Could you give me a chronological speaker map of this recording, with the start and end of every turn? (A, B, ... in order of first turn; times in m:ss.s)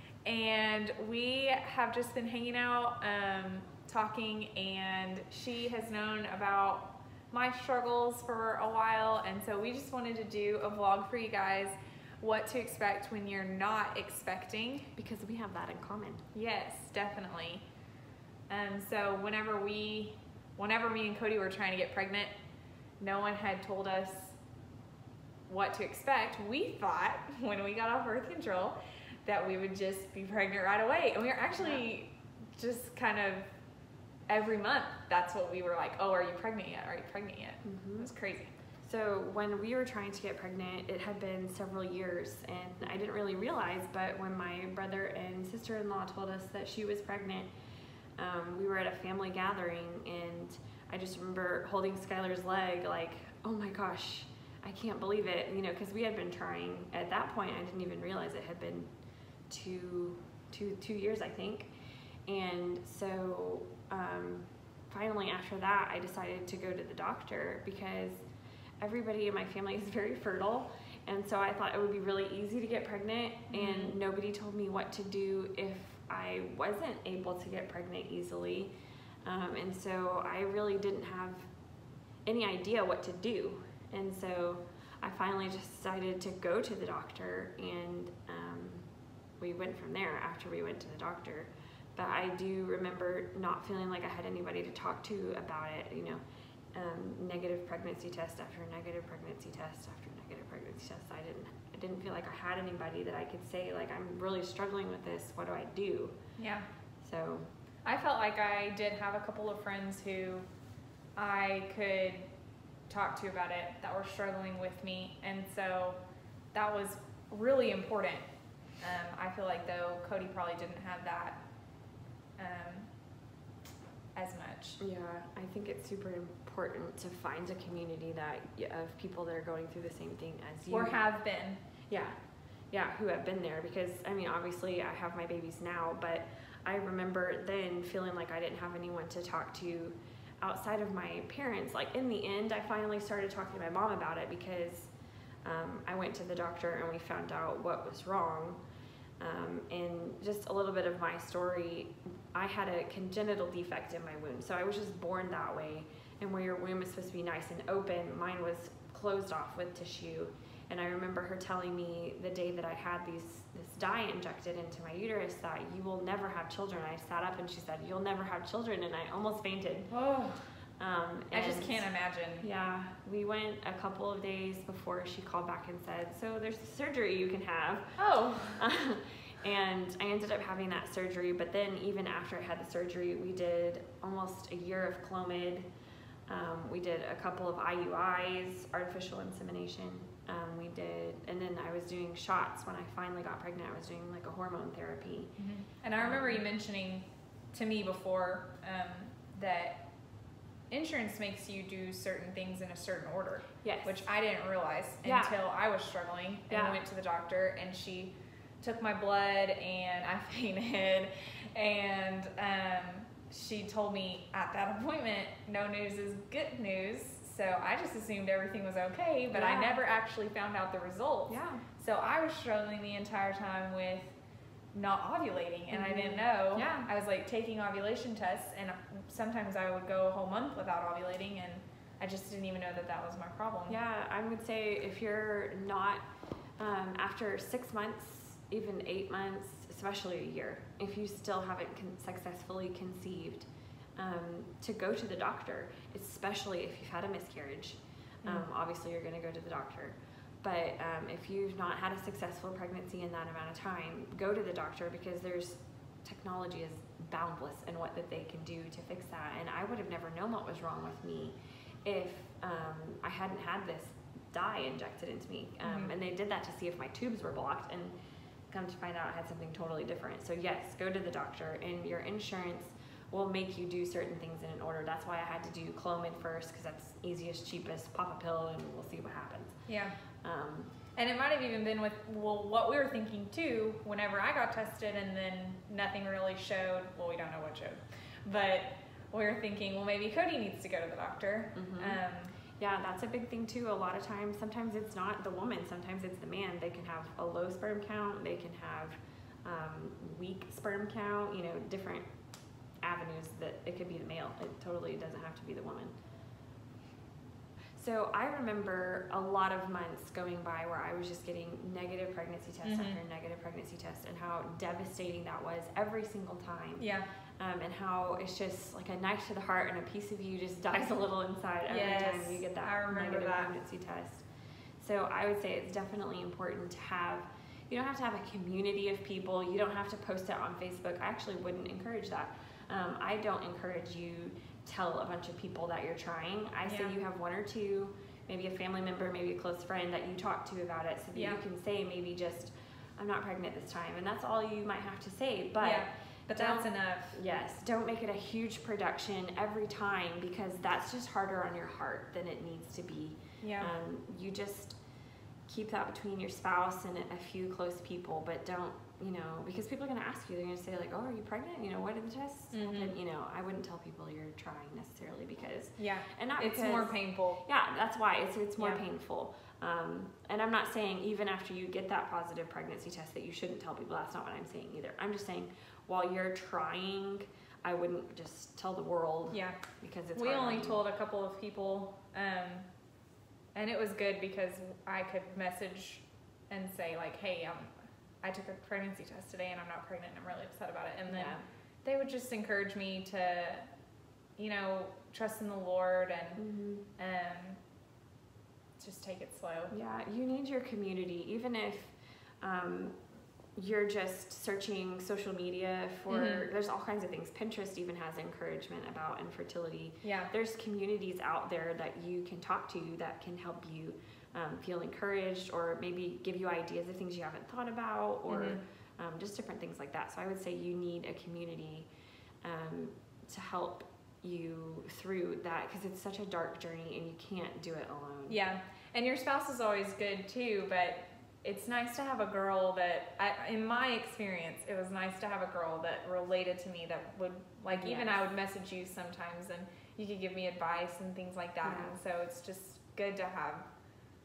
0:00.2-0:14.9 A
0:15.0-0:16.2 B
0:16.3-0:17.6 A
0:18.5-0:22.3 A
0:23.0-0:24.4 A
0:25.5-0:33.5 A
0:34.3-0:38.5 A
0:37.6-0:38.1 B
0:38.8-0:47.5 B
0:48.2-0:58.9 B
0:59.5-1:01.7 B
1:02.3-1:08.2 B
1:08.8-1:18.7 B
1:13.5-1:14.0 A
1:19.2-1:21.5 B
1:22.2-1:28.9 B
1:29.4-1:36.2 B
1:36.7-1:46.2 B
1:46.4-1:46.7 A
1:47.0-1:47.5 B
1:47.8-1:50.5 A
1:51.2-1:52.3 A
1:52.9-1:56.0 A
1:56.5-1:58.2 A
1:58.8-2:01.4 A
2:02.4-2:02.9 A
2:04.1-2:04.8 A
2:04.8-2:11.0 B
2:10.7-2:11.6 A
2:11.9-2:12.2 B
2:12.7-2:24.9 B
2:25.4-2:28.6 B
2:29.2-2:49.9 B
2:49.9-2:50.4 A
2:50.8-2:51.8 B
2:51.3-2:52.5 A
2:52.4-3:05.6 B
2:58.0-2:58.6 A
3:06.3-3:15.3 B
3:15.4-3:19.8 A
3:16.0-3:16.4 B
3:20.7-3:44.1 A
3:23.6-3:24.0 B
3:25.0-3:25.4 B
3:26.5-3:26.8 B
3:39.3-3:39.8 B
3:41.3-3:41.6 B
3:44.7-3:53.8 A
3:45.7-3:46.9 B
3:53.7-3:56.0 B
3:56.6-4:27.9 B
4:08.2-4:08.5 A
4:25.6-4:25.9 A
4:28.5-4:39.6 B
4:39.7-4:40.0 A
4:40.2-4:40.7 B
4:40.9-4:52.3 A
4:51.5-4:52.0 B
4:52.6-5:02.0 B
5:02.8-5:05.9 B
5:07.7-5:24.2 B
5:12.6-5:13.0 A
5:16.8-5:17.1 A
5:21.7-5:23.5 A
5:24.8-5:54.8 B
5:36.6-5:37.0 A
5:41.1-5:41.4 A
5:45.6-5:47.2 A
5:53.4-5:53.7 A
5:55.5-6:20.8 B
6:02.5-6:02.9 A
6:05.8-6:07.4 A
6:08.6-6:08.8 A
6:19.3-6:19.6 A
6:20.1-6:22.7 A
6:23.5-6:33.6 A
6:31.1-6:31.4 B
6:34.4-6:36.4 A
6:36.4-6:36.9 B
6:37.0-6:37.6 A
6:38.8-6:39.7 A
6:39.7-6:43.0 B
6:43.6-7:01.9 B
6:46.1-6:46.5 A
6:50.0-6:50.3 A
6:58.3-6:58.6 A
7:02.4-7:08.4 B
7:08.3-7:23.6 A
7:17.7-7:18.2 B
7:21.6-7:22.0 B